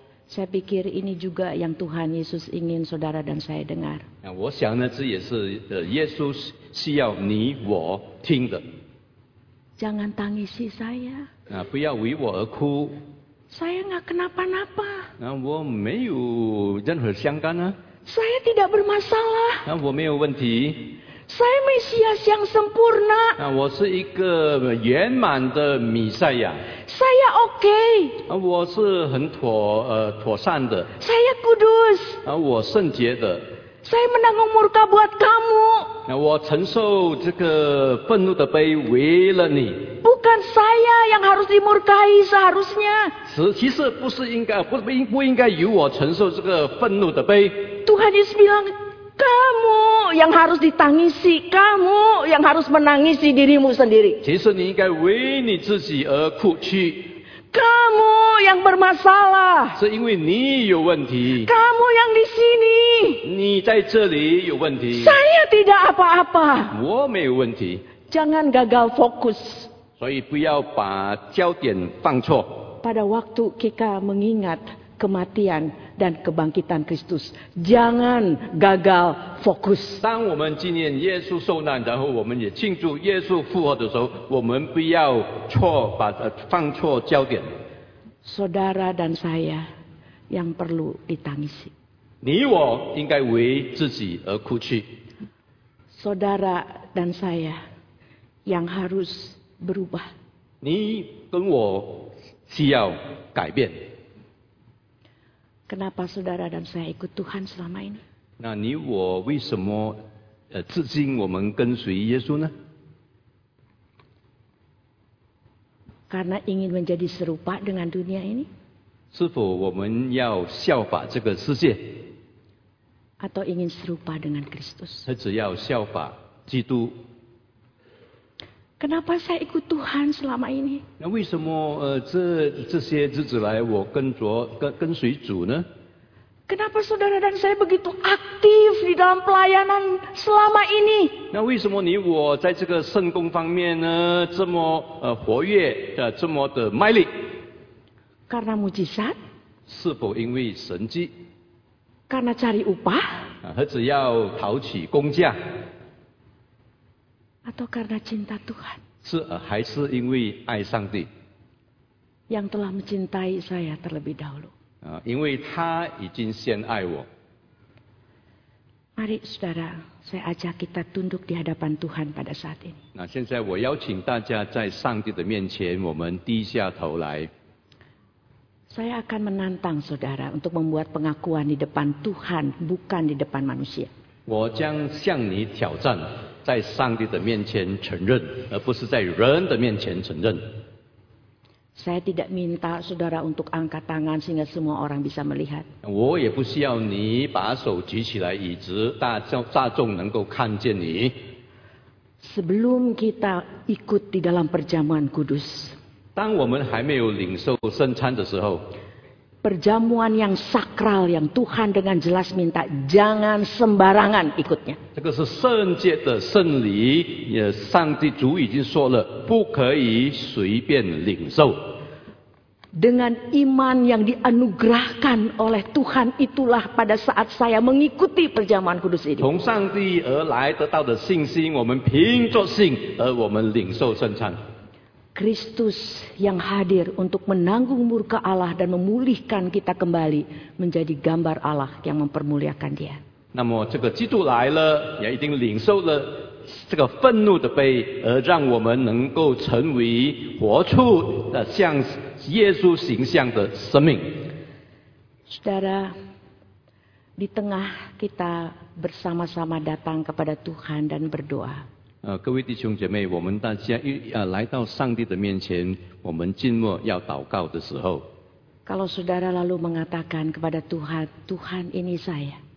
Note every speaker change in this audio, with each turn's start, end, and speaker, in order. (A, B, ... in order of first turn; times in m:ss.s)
0:00.3-0:04.1 A
0:04.2-0:08.6 B
0:09.8-0:11.3 A
0:11.5-0:13.0 B
0:13.5-0:15.1 A
0:15.2-0:17.8 B
0:18.0-0:19.6 A
0:19.6-0:21.0 B
0:21.3-0:23.4 A
0:23.4-0:26.6 B
0:26.8-0:28.2 A
0:28.3-0:30.9 B
0:31.0-0:32.2 A
0:32.2-0:33.5 B
0:33.8-0:36.0 A
0:36.1-0:39.9 B
0:40.0-0:43.1 A
0:43.2-0:47.7 B
0:47.8-0:54.2 A
0:54.2-0:57.1 B
0:57.5-0:59.8 A
0:59.8-1:01.5 B
1:01.3-1:03.3 A
1:03.2-1:05.2 B
1:04.9-1:06.8 A
1:06.7-1:07.8 B
1:08.1-1:09.7 A
1:10.0-1:12.6 B
1:12.8-1:20.0 A
1:20.0-1:27.5 B
1:28.2-1:29.7 A
1:30.3-1:31.7 A
1:32.2-1:34.9 B
1:35.9-1:37.6 A
1:38.5-1:40.1 A
1:40.6-1:43.8 B
1:45.7-1:48.0 A
1:48.4-1:50.0 B
1:50.5-1:52.5 B
1:56.1-1:58.5 A
1:59.1-2:02.0 B
2:03.2-2:05.1 A
2:05.1-2:07.0 B
2:08.8-2:10.8 A
2:11.0-2:15.6 B
2:16.5-2:21.3 A
2:21.3-2:27.1 B
2:28.3-2:29.2 A
2:29.7-2:31.1 B
2:32.1-2:33.3 A
2:33.4-2:35.4 B
2:37.4-2:38.8 A
2:39.0-2:41.1 B
2:42.3-2:44.5 A
2:44.8-2:47.1 B
2:49.0-2:52.8 A
2:52.9-2:57.3 B
2:58.7-3:03.9 A
3:04.3-3:10.4 B
3:11.8-3:15.7 A
3:15.8-3:21.1 B
3:22.2-3:25.8 A
3:26.1-3:28.6 B
3:29.4-3:34.8 A
3:35.0-3:41.6 B
3:42.7-3:49.2 A
3:49.2-3:54.4 B
3:55.1-4:03.0 A
4:03.3-4:14.2 B
4:15.3-4:15.9 A
4:17.2-4:21.6 A
4:22.0-4:28.0 B
4:28.7-4:32.4 A